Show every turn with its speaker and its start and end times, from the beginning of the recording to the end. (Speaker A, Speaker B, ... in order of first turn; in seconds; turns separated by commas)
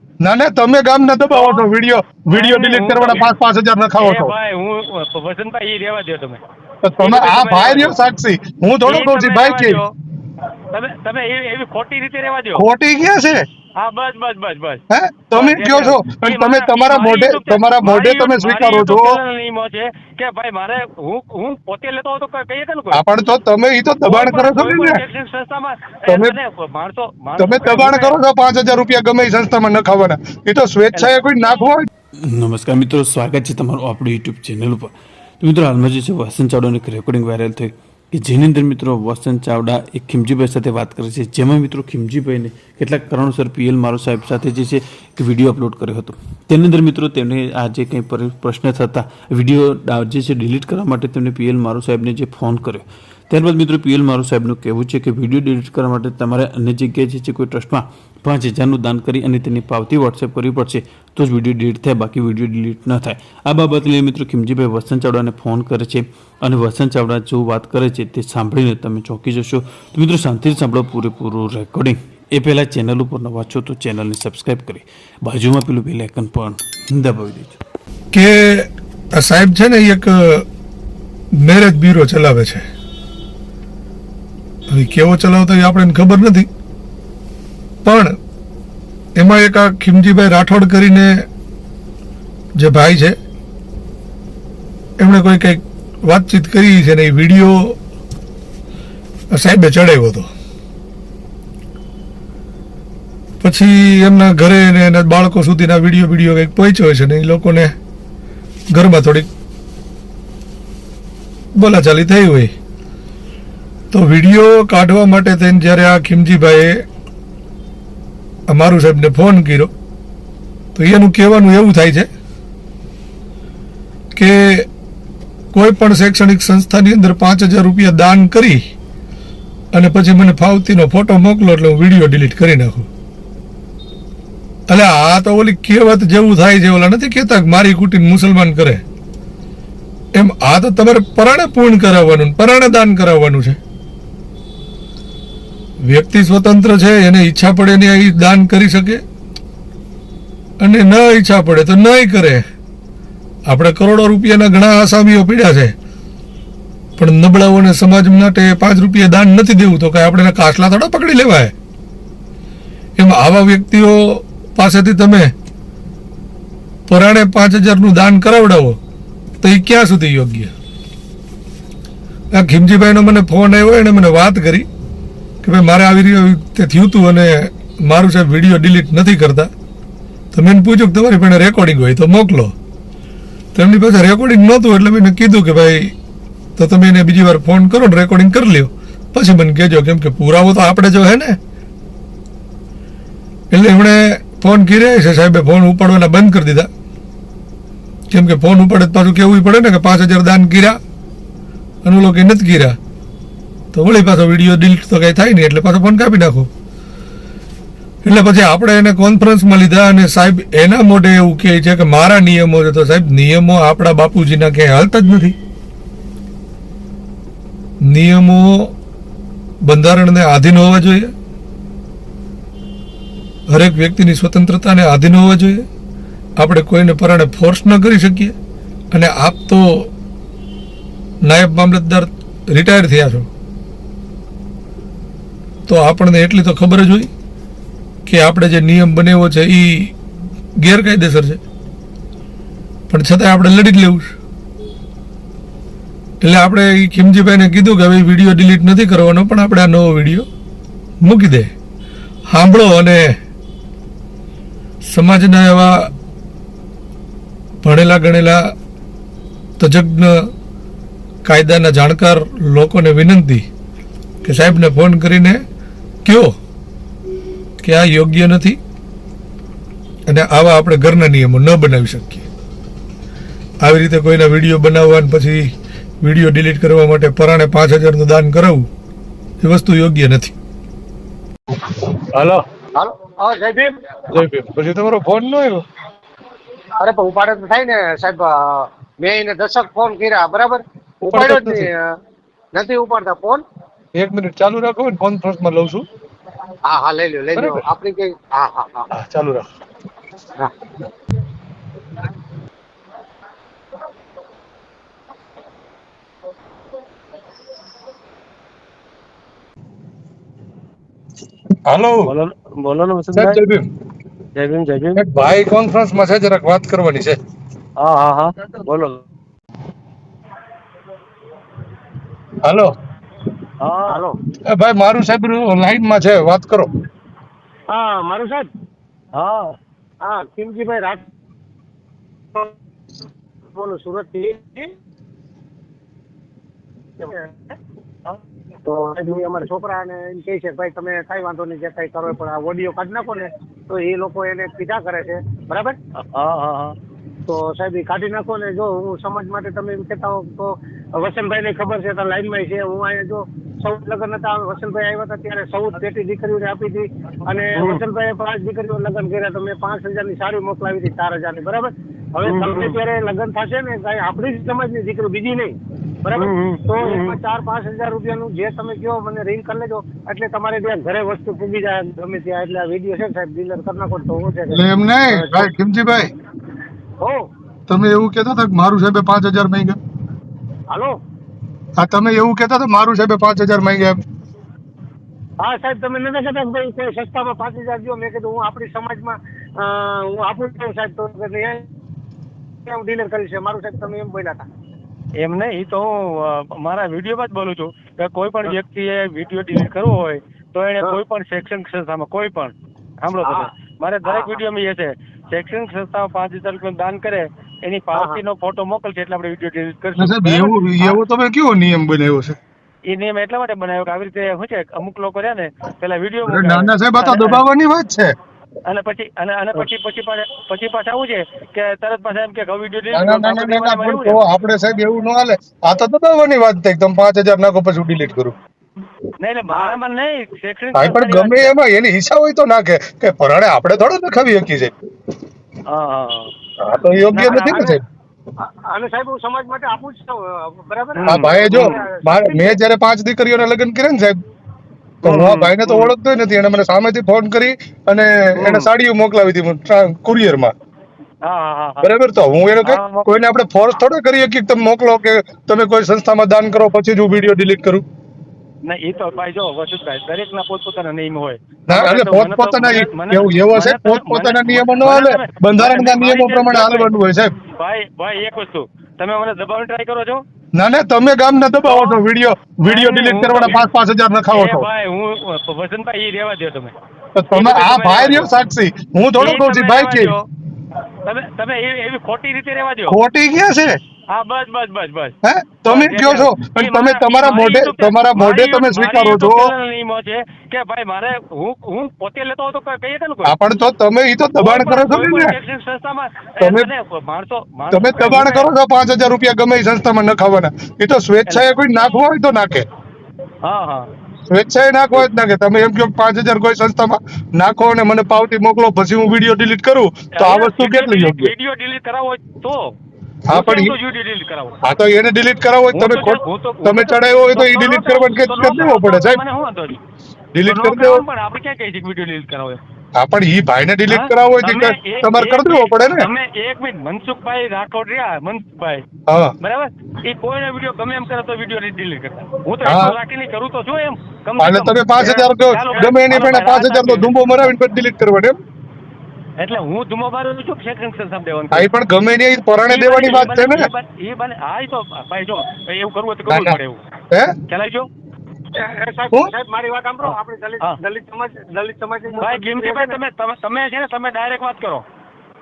Speaker A: 0.2-4.3, Speaker B: 1.3-1.7, Speaker B: 2.3-3.3, Speaker B: 4.0-6.4, Speaker A: 6.8-9.8, Speaker B: 7.0-8.0, Speaker B: 8.8-9.9, Speaker B: 10.7-12.7, Speaker A: 12.6-13.4, Speaker B: 13.8-14.8, Speaker A: 14.9-19.2, Speaker B: 15.3-23.0, Speaker A: 22.9-25.0, Speaker B: 24.0-28.2, Speaker A: 26.1-26.4, Speaker A: 27.4-31.9, Speaker B: 30.9-31.2, Speaker C: 32.4-34.9, Speaker C: 35.4-77.6, Speaker D: 78.1-80.4, Speaker D: 81.4-82.7, Speaker D: 84.7-86.5, Speaker D: 87.8-88.2, Speaker D: 89.2-91.2, Speaker D: 92.6-93.2, Speaker D: 95.0-97.8, Speaker D: 99.3-100.3, Speaker D: 103.4-107.7, Speaker D: 108.7-109.3, Speaker D: 111.5-112.5, Speaker D: 113.9-116.8, Speaker D: 118.5-119.7, Speaker D: 120.8-122.1, Speaker D: 124.2-124.7, Speaker D: 125.5-128.6, Speaker D: 129.7-132.9, Speaker D: 134.7-138.8, Speaker D: 140.2-143.6, Speaker D: 145.8-149.0, Speaker D: 150.6-152.4, Speaker D: 153.5-155.7, Speaker D: 157.0-161.5, Speaker D: 163.0-165.3, Speaker D: 166.9-168.8, Speaker D: 169.4-170.5, Speaker D: 172.3-174.7, Speaker D: 175.4-179.5, Speaker D: 180.3-182.5, Speaker D: 183.6-185.9, Speaker D: 186.6-191.4, Speaker D: 193.5-196.7, Speaker D: 198.1-200.8, Speaker D: 201.8-202.8, Speaker D: 203.7-206.5, Speaker D: 208.0-215.4, Speaker D: 217.9-218.7, Speaker D: 219.7-221.1, Speaker D: 223.5-225.6, Speaker D: 226.4-228.3, Speaker D: 228.9-229.9, Speaker D: 231.2-233.3, Speaker D: 235.7-237.1, Speaker D: 238.1-239.9, Speaker D: 240.6-241.4, Speaker D: 242.9-244.1, Speaker D: 246.2-250.3, Speaker D: 251.0-251.5, Speaker D: 252.3-253.1, Speaker D: 254.9-255.7, Speaker D: 257.6-258.4, Speaker D: 259.6-260.2, Speaker D: 261.2-263.4, Speaker D: 264.2-265.4, Speaker D: 266.1-266.3, Speaker D: 267.6-268.6, Speaker D: 270.1-272.3, Speaker D: 273.6-275.5, Speaker D: 276.0-278.7, Speaker D: 279.4-280.3, Speaker D: 282.1-282.4, Speaker E: 282.8-284.0, Speaker D: 284.1-285.6, Speaker E: 286.8-291.9, Speaker D: 291.3-291.6, Speaker E: 292.5-293.4, Speaker D: 294.0-295.9, Speaker E: 296.7-298.9, Speaker A: 297.4-297.6, Speaker D: 298.9-299.5, Speaker A: 311.7-312.1, Speaker B: 312.1-313.4, Speaker A: 313.1-313.7, Speaker B: 314.4-315.0, Speaker A: 315.0-317.2, Speaker B: 317.8-319.0, Speaker A: 322.4-322.7, Speaker B: 323.6-324.0, Speaker E: 323.9-324.2, Speaker A: 324.5-326.7, Speaker E: 327.7-328.5, Speaker B: 329.1-329.6, Speaker E: 330.0-331.1, Speaker E: 333.5-334.7, Speaker E: 338.6-345.8, Speaker B: 346.0-346.7, Speaker E: 347.3-375.5, Speaker B: 357.6-357.8, Speaker B: 362.2-362.8, Speaker B: 366.1-367.1, Speaker A: 374.5-376.1, Speaker A: 377.7-379.8, Speaker E: 380.7-381.0, Speaker A: 381.8-384.0, Speaker E: 385.4-391.6, Speaker E: 392.7-394.5, Speaker B: 395.2-411.0, Speaker E: 403.2-403.5, Speaker E: 404.1-404.4, Speaker E: 407.9-408.2, Speaker A: 410.0-412.4, Speaker B: 412.9-417.4, Speaker A: 416.2-418.1, Speaker B: 418.7-424.2, Speaker A: 422.9-428.4, Speaker B: 429.2-431.6, Speaker E: 429.5-429.8, Speaker A: 430.8-434.7, Speaker B: 435.7-436.3, Speaker A: 436.6-437.8, Speaker B: 437.1-437.8, Speaker E: 438.4-442.6, Speaker B: 441.0-441.7, Speaker A: 441.1-444.2, Speaker B: 445.0-445.9, Speaker A: 445.0-450.5, Speaker B: 448.4-448.7, Speaker B: 451.2-451.9, Speaker A: 451.8-457.8, Speaker B: 452.6-453.2, Speaker B: 458.6-466.9, Speaker A: 461.7-467.3, Speaker B: 467.6-470.2, Speaker A: 470.6-474.7, Speaker B: 471.6-472.0, Speaker B: 472.6-473.6, Speaker B: 474.3-476.7, Speaker A: 477.1-480.1, Speaker B: 477.3-478.3, Speaker B: 479.2-480.2, Speaker B: 481.0-483.0, Speaker A: 482.9-483.8, Speaker B: 484.1-485.1, Speaker A: 485.2-489.5, Speaker B: 485.7-493.4, Speaker A: 493.3-495.4, Speaker B: 494.4-498.5, Speaker A: 496.4-496.7, Speaker A: 497.7-502.7, Speaker B: 501.3-501.6, Speaker B: 503.4-503.9, Speaker A: 504.3-511.3, Speaker B: 510.1-512.8, Speaker A: 513.3-513.8, Speaker B: 513.3-514.6, Speaker A: 514.6-519.2, Speaker B: 515.7-519.8, Speaker A: 520.3-521.0, Speaker B: 520.4-522.6, Speaker A: 523.0-526.1, Speaker B: 523.9-528.8, Speaker A: 529.1-529.3, Speaker B: 529.4-537.1, Speaker A: 532.6-533.0, Speaker A: 534.4-538.4, Speaker B: 539.4-541.7, Speaker A: 541.5-543.7, Speaker B: 542.7-546.8, Speaker A: 546.3-546.6, Speaker B: 547.5-547.9, Speaker E: 548.6-553.0, Speaker B: 550.0-550.7, Speaker B: 552.2-554.8